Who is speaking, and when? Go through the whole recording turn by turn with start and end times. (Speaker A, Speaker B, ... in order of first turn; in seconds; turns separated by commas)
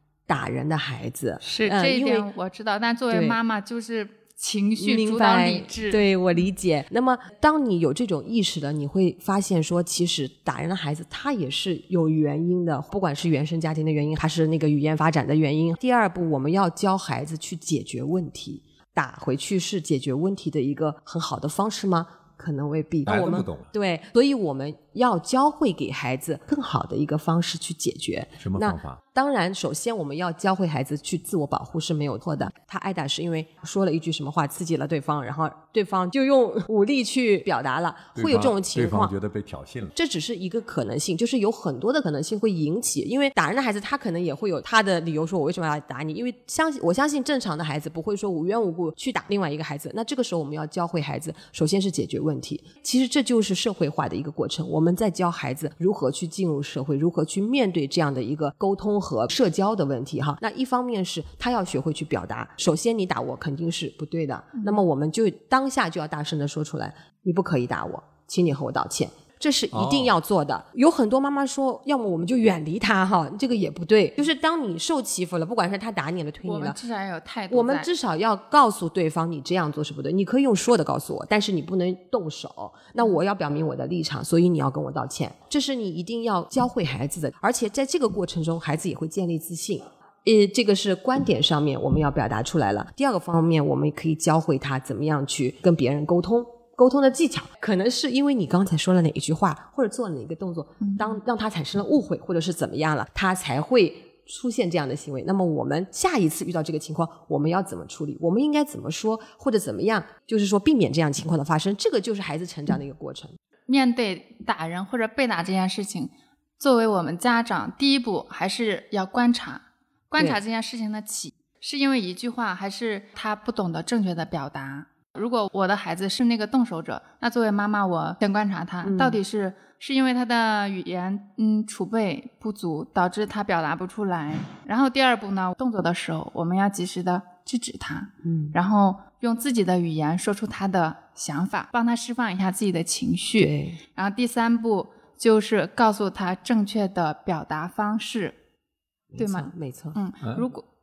Speaker A: 0.3-2.3, Speaker B: 1.4-6.0, Speaker A: 3.1-3.4, Speaker A: 4.8-39.1, Speaker C: 23.1-23.7, Speaker C: 28.4-29.0, Speaker C: 38.1-39.9, Speaker A: 39.9-76.8, Speaker C: 69.7-70.1, Speaker B: 76.4-77.9, Speaker A: 77.5-113.3, Speaker B: 100.8-101.2, Speaker B: 113.7-148.4, Speaker A: 128.8-129.2, Speaker A: 138.2-138.6, Speaker A: 143.4-143.8, Speaker A: 149.1-150.0, Speaker B: 149.2-150.6